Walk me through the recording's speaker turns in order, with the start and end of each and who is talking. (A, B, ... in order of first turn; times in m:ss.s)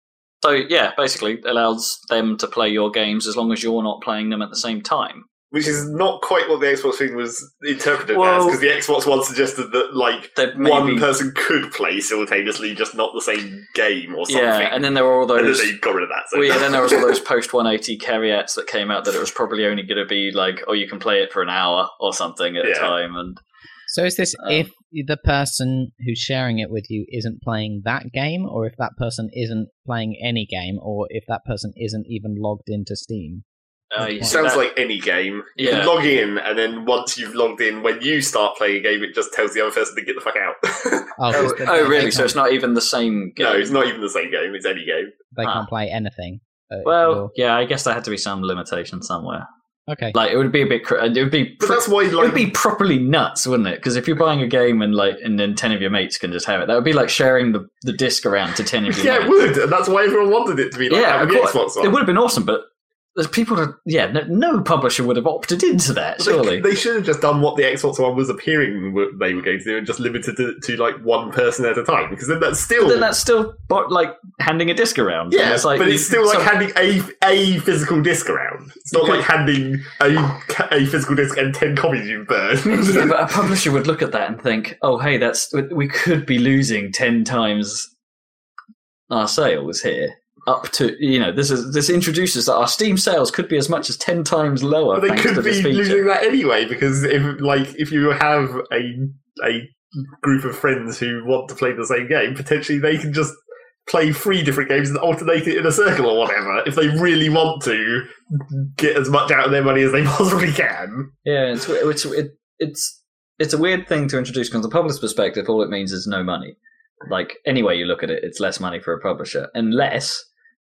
0:00.4-0:05.3 A
0:05.5-0:17.2 B
0:08.1-0:08.6 A
0:10.4-0:11.1 A
0:14.3-0:15.8 A
0:16.3-0:23.4 A
0:22.6-0:22.9 B
0:23.9-0:33.4 C
0:33.9-0:34.7 A
0:34.0-0:34.4 C
0:34.3-0:41.6 B
0:35.6-0:36.0 A
0:41.2-0:42.4 C
0:41.3-0:43.7 A
0:43.4-0:45.1 B
0:45.3-0:47.3 C
0:46.8-0:49.5 A
0:49.9-0:50.2 C
0:50.1-0:59.4 A
0:51.6-0:52.5 B
0:58.9-1:02.0 B
1:00.9-1:06.7 A
1:06.2-1:13.1 B
1:12.8-1:16.5 A
1:15.3-1:23.2 B
1:18.9-1:19.3 A
1:22.7-1:27.9 A
1:29.1-1:36.0 A
1:34.9-1:51.1 B
1:51.2-2:00.3 A